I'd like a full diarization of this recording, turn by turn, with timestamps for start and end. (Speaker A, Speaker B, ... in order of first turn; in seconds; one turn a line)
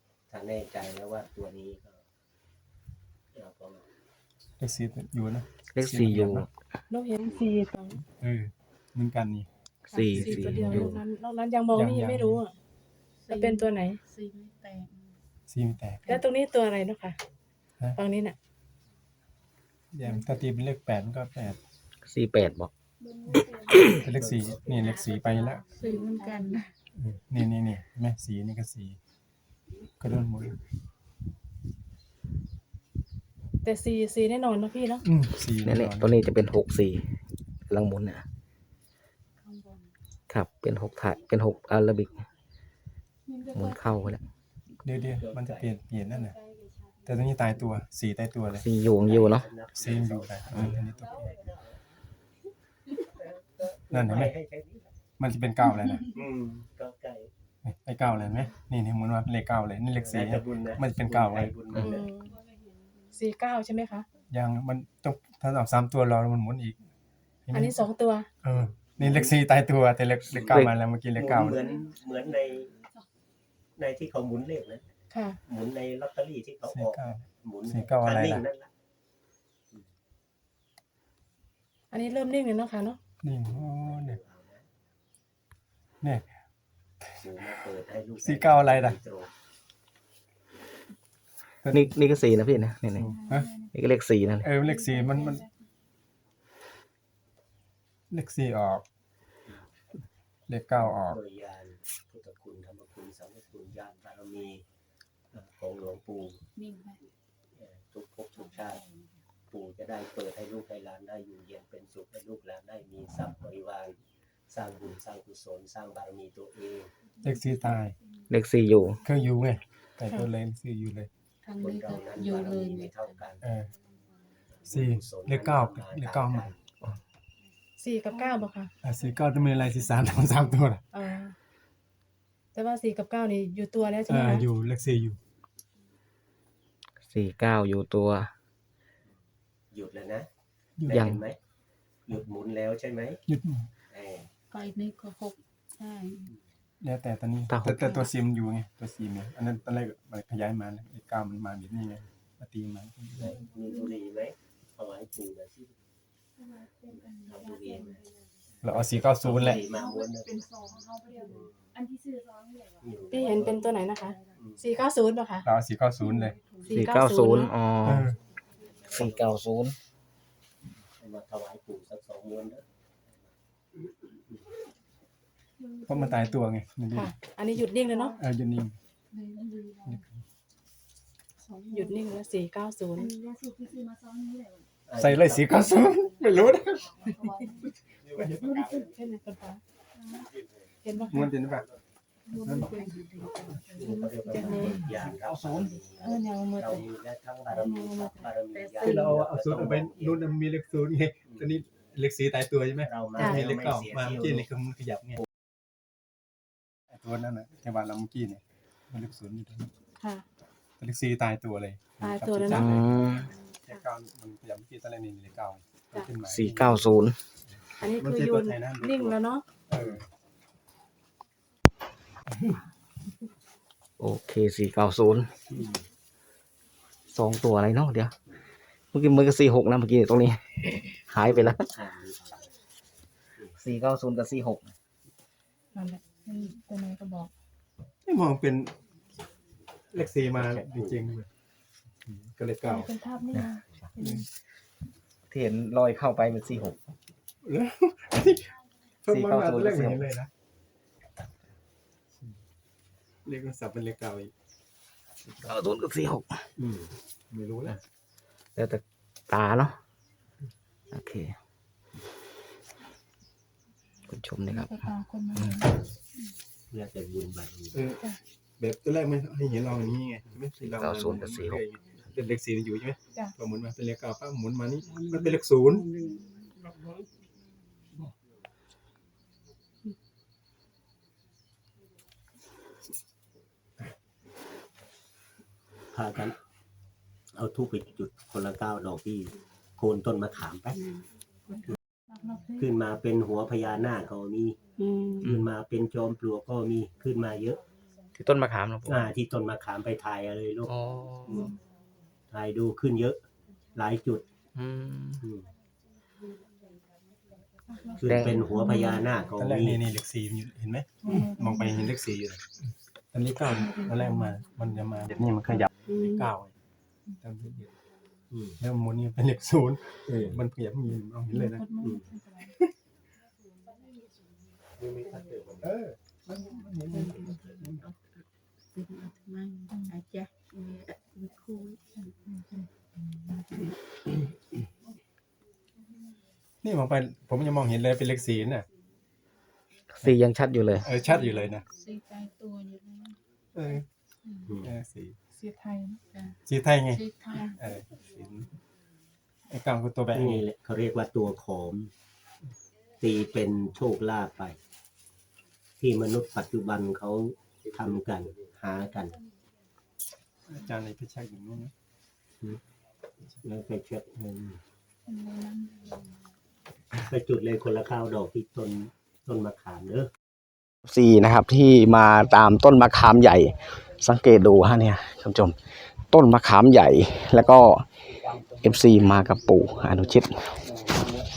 Speaker A: 0.3-2.0
Speaker A: 3.3-3.9
Speaker B: 4.6-6.5
Speaker C: 5.8-6.5
Speaker D: 6.9-8.0
Speaker A: 7.2-7.6
Speaker B: 8.2-9.5
Speaker C: 9.9-11.0
Speaker D: 9.9-12.5
Speaker B: 10.1-11.0
Speaker B: 11.7-12.4
Speaker E: 13.2-15.2
Speaker D: 13.3-14.0
Speaker B: 15.5-16.2
Speaker D: 16.1-17.2
Speaker D: 18.0-18.4
Speaker B: 19.9-21.6
Speaker C: 22.1-22.7
Speaker E: 23.1-23.9
Speaker C: 23.5-24.0
Speaker B: 23.9-25.6
Speaker A: 24.0-25.9
Speaker E: 25.7-26.7
Speaker B: 26.9-29.0
Speaker B: 30.0-30.6
Speaker D: 33.6-35.0
Speaker B: 35.0-36.2
Speaker C: 35.6-37.1
Speaker C: 37.7-38.2
Speaker E: 39.4-39.9
Speaker C: 40.3-42.3
Speaker E: 43.3-43.8
Speaker C: 43.5-44.2
Speaker B: 44.9-46.4
Speaker A: 45.1-45.7
Speaker E: 46.2-47.2
Speaker B: 47.0-48.7
Speaker C: 48.5-49.5
Speaker A: 48.8-51.8
Speaker B: 49.8-51.2
Speaker A: 53.0-55.0
Speaker B: 53.9-54.4
Speaker B: 55.2-56.1
Speaker A: 56.1-57.3
Speaker B: 57.6-61.6
Speaker A: 60.0-62.1
Speaker D: 61.7-62.4
Speaker E: 62.3-62.9
Speaker D: 63.1-64.1
Speaker B: 64.3-66.8
Speaker B: 67.5-67.8
Speaker D: 67.5-68.3
Speaker B: 68.4-71.7
Speaker A: 69.0-69.3
Speaker A: 70.3-72.8
Speaker C: 70.5-70.7
Speaker A: 73.8-74.9
Speaker D: 75.1-75.4
Speaker A: 75.4-78.7
Speaker B: 76.7-78.5
Speaker D: 81.9-83.0
Speaker B: 83.2-84.2
Speaker A: 83.5-84.7
Speaker A: 87.2-89.3
Speaker B: 88.2-89.0
Speaker B: 91.6-91.9
Speaker C: 91.7-93.1
Speaker B: 93.0-93.5
Speaker E: 93.1-93.5
Speaker C: 93.7-94.5
Speaker B: 94.4-95.5
Speaker B: 98.1-98.8
Speaker B: 100.5-101.2
Speaker A: 100.8-104.6
Speaker A: 105.3-106.4
Speaker E: 106.6-107.0
Speaker A: 107.5-108.8
Speaker E: 108.6-109.0
Speaker A: 109.5-114.0
Speaker A: 114.5-116.9
Speaker B: 117.2-118.0
Speaker C: 118.3-119.0
Speaker B: 119.0-121.1
Speaker E: 121.4-123.2
Speaker A: 121.6-123.4
Speaker B: 123.4-123.7
Speaker A: 124.6-126.6
Speaker B: 124.7-126.5
Speaker D: 127.8-128.7
Speaker B: 128.8-130.8
Speaker D: 130.9-131.3
Speaker D: 132.6-134.5
Speaker B: 134.1-135.2
Speaker C: 137.1-138.3
Speaker A: 139.7-140.3
Speaker B: 140.8-141.2
Speaker C: 140.9-141.2
Speaker A: 140.9-141.4
Speaker A: 142.1-143.2
Speaker B: 143.3-143.7
Speaker A: 143.9-144.3
Speaker E: 144.5-146.3
Speaker B: 146.8-153.4
Speaker C: 147.5-148.1
Speaker A: 153.2-155.7
Speaker E: 156.4-158.0
Speaker A: 156.9-158.0
Speaker A: 158.6-160.7
Speaker B: 158.6-159.7
Speaker E: 159.6-162.8
Speaker A: 161.2-161.7
Speaker A: 162.8-164.6
Speaker D: 163.1-165.5
Speaker B: 165.4-166.4
Speaker E: 166.0-166.9
Speaker D: 166.7-167.5
Speaker C: 166.7-168.1
Speaker B: 167.8-168.2
Speaker A: 168.6-169.3
Speaker C: 168.9-169.8
Speaker A: 171.0-173.3
Speaker A: 174.1-174.5
Speaker E: 175.6-176.2
Speaker B: 175.9-177.1
Speaker D: 176.9-178.2
Speaker B: 178.2-178.8
Speaker E: 179.1-180.1
Speaker E: 181.4-182.1
Speaker D: 181.7-183.1
Speaker E: 183.0-184.7
Speaker A: 184.9-185.8
Speaker B: 184.9-187.2
Speaker E: 186.7-187.7
Speaker B: 188.0-188.9
Speaker D: 188.6-189.6
Speaker E: 190.0-190.3
Speaker A: 190.3-191.8
Speaker D: 190.8-191.3
Speaker B: 191.1-191.7
Speaker E: 192.3-194.6
Speaker B: 192.4-192.7
Speaker A: 193.8-200.2
Speaker D: 193.8-194.9
Speaker C: 194.9-195.8
Speaker D: 196.0-196.9
Speaker D: 197.5-198.3
Speaker E: 198.5-199.0
Speaker B: 198.8-205.2
Speaker A: 202.8-204.5
Speaker D: 203.2-203.4
Speaker B: 206.9-209.7
Speaker B: 210.8-216.8
Speaker D: 212.0-212.8
Speaker C: 212.5-213.3
Speaker C: 216.3-217.2
Speaker D: 217.8-219.4
Speaker B: 218.0-219.2
Speaker B: 219.7-220.1
Speaker C: 224.0-225.4
Speaker C: 227.1-228.2
Speaker C: 228.9-231.7
Speaker A: 231.3-232.5
Speaker C: 233.6-234.7
Speaker D: 235.8-237.3
Speaker B: 238.1-238.7
Speaker B: 239.9-241.3
Speaker A: 240.3-241.1
Speaker B: 242.1-242.9
Speaker D: 242.7-244.2
Speaker C: 243.3-243.6
Speaker B: 244.0-244.2
Speaker C: 245.3-246.8
Speaker B: 247.4-248.5
Speaker B: 249.0-250.3
Speaker C: 249.1-250.0
Speaker B: 253.2-254.3
Speaker C: 255.4-256.3
Speaker B: 256.6-257.8
Speaker C: 258.6-259.8
Speaker C: 260.9-261.4
Speaker C: 264.1-265.7
Speaker D: 264.6-265.7
Speaker A: 266.7-267.8
Speaker B: 267.7-268.1
Speaker B: 268.6-275.9
Speaker C: 270.6-271.6
Speaker E: 276.0-276.5
Speaker A: 285.9-286.4
Speaker A: 287.4-290.9
Speaker E: 290.8-291.8
Speaker D: 292.1-292.6
Speaker A: 292.6-294.6
Speaker E: 294.8-295.2
Speaker A: 295.2-297.6
Speaker C: 295.2-295.5
Speaker C: 298.2-299.1
Speaker A: 298.9-300.7
Speaker C: 300.7-301.5
Speaker A: 301.3-301.6
Speaker A: 302.3-303.2
Speaker A: 303.7-304.3
Speaker C: 304.6-305.3
Speaker A: 305.2-305.5
Speaker D: 307.7-309.0
Speaker A: 307.9-309.9
Speaker C: 308.0-308.5
Speaker B: 309.4-312.4
Speaker B: 313.1-316.6
Speaker B: 317.2-317.7
Speaker A: 318.3-318.6
Speaker B: 318.6-321.7
Speaker E: 321.3-322.5
Speaker A: 321.8-322.1
Speaker A: 324.8-325.8
Speaker B: 325.6-327.8
Speaker E: 326.7-328.2
Speaker E: 328.7-332.6
Speaker B: 336.6-338.7
Speaker C: 339.9-340.9
Speaker B: 340.8-341.7
Speaker E: 341.1-343.2
Speaker B: 343.6-343.9
Speaker E: 344.3-344.5
Speaker A: 344.5-344.7
Speaker B: 344.6-345.2
Speaker D: 345.3-346.0
Speaker E: 346.1-346.4
Speaker B: 346.5-348.6
Speaker E: 346.9-347.5
Speaker B: 349.5-350.4
Speaker A: 350.1-351.9
Speaker A: 353.0-354.6
Speaker A: 355.8-359.2
Speaker B: 360.5-361.7
Speaker A: 363.4-364.6
Speaker E: 365.1-366.3
Speaker A: 367.0-370.1
Speaker C: 370.9-375.6
Speaker C: 376.1-377.9
Speaker C: 378.6-380.5